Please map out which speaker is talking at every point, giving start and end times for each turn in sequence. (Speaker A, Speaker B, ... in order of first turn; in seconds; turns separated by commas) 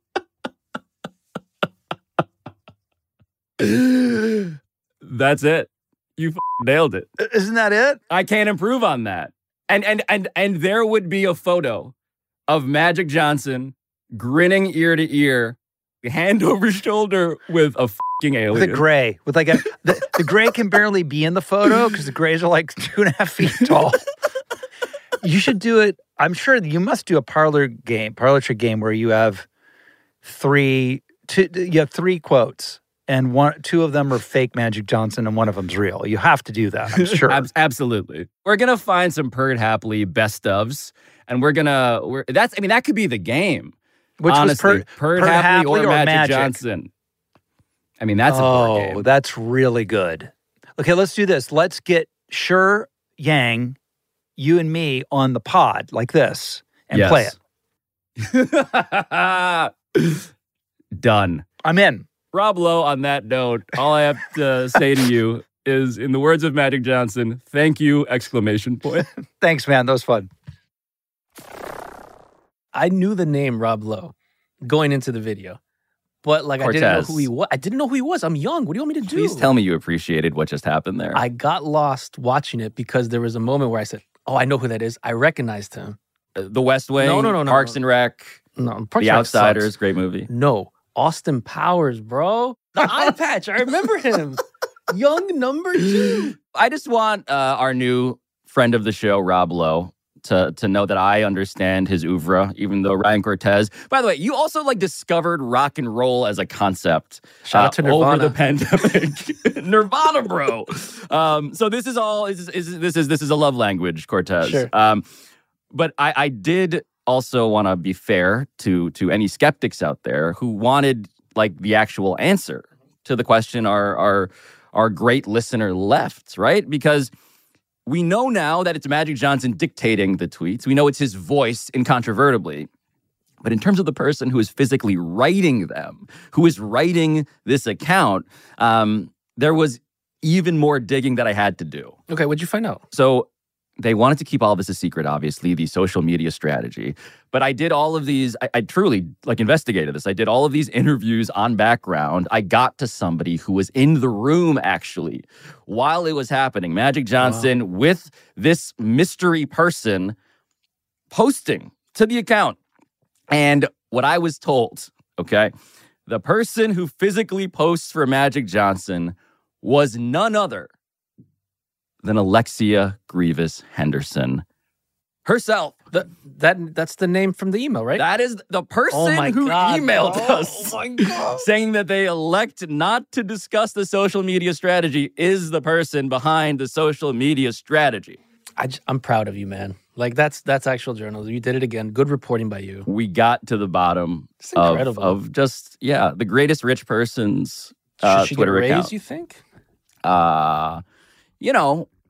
Speaker A: 3.6-7.1, Speaker B: 7.2-8.0, Speaker A: 8.1-11.9, Speaker A: 12.5-18.8, Speaker B: 18.5-24.0, Speaker B: 25.2-29.5, Speaker B: 30.2-37.4, Speaker A: 37.0-43.7, Speaker B: 44.2-46.6, Speaker A: 44.3-46.9, Speaker A: 48.0-49.0, Speaker B: 48.3-53.8, Speaker B: 54.4-57.4, Speaker A: 56.9-57.3, Speaker A: 58.2-60.2, Speaker A: 61.0-61.4, Speaker B: 61.6-62.1, Speaker A: 62.3-69.0, Speaker B: 69.4-70.3, Speaker C: 72.7-75.6, Speaker C: 76.2-79.5, Speaker A: 76.6-77.3, Speaker A: 79.1-81.2, Speaker C: 81.1-86.0, Speaker A: 86.3-88.4, Speaker C: 87.0-87.8, Speaker C: 88.6-89.7, Speaker A: 89.0-90.3, Speaker C: 90.3-96.3, Speaker A: 96.5-115.0, Speaker C: 107.4-108.3, Speaker C: 114.4-114.7, Speaker A: 115.7-127.1, Speaker A: 127.8-132.7, Speaker A: 133.4-142.0, Speaker C: 142.1-142.8, Speaker A: 142.9-143.3, Speaker A: 143.8-160.2, Speaker C: 157.2-157.5, Speaker A: 161.1-162.6, Speaker A: 163.3-165.5, Speaker A: 166.1-170.7, Speaker A: 172.0-174.4, Speaker A: 175.2-175.8, Speaker C: 175.9-178.0, Speaker A: 178.0-188.2, Speaker C: 178.9-181.4, Speaker C: 188.6-192.8, Speaker A: 192.8-198.9, Speaker C: 194.4-195.2, Speaker C: 198.0-199.4, Speaker A: 200.0-200.8, Speaker A: 201.4-201.9